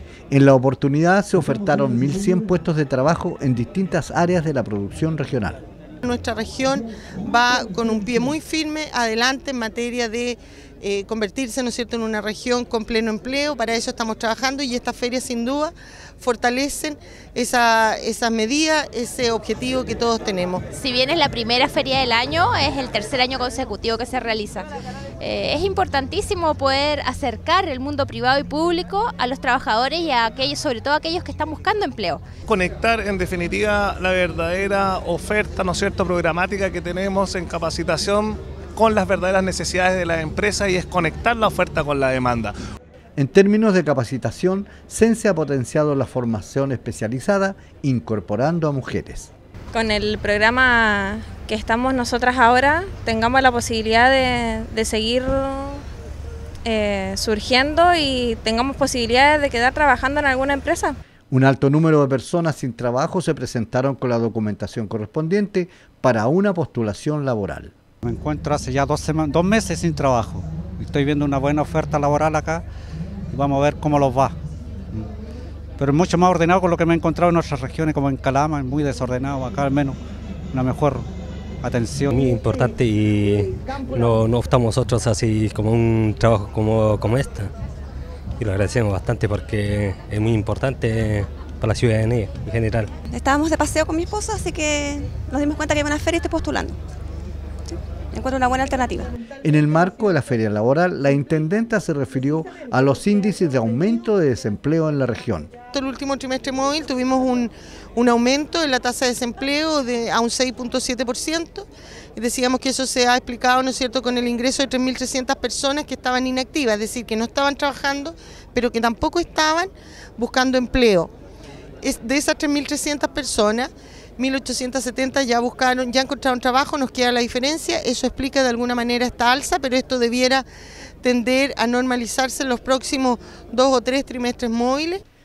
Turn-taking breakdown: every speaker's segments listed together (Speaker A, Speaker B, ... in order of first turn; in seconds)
Speaker A: 0.3-5.6, 43.1-49.3, 61.3-67.7, 99.4-105.5
Speaker B: 6.0-20.6, 105.7-121.1, 121.8-130.4, 131.0-135.0
Speaker C: 20.7-24.7, 25.2-32.2
Speaker D: 32.5-42.5
Speaker E: 49.7-55.8, 56.6-61.0
Speaker F: 68.0-72.6, 73.3-74.3, 75.8-80.0, 80.5-81.1, 81.6-82.1
Speaker G: 82.1-87.5, 88.4-92.9
Speaker H: 93.1-96.8, 97.7-99.1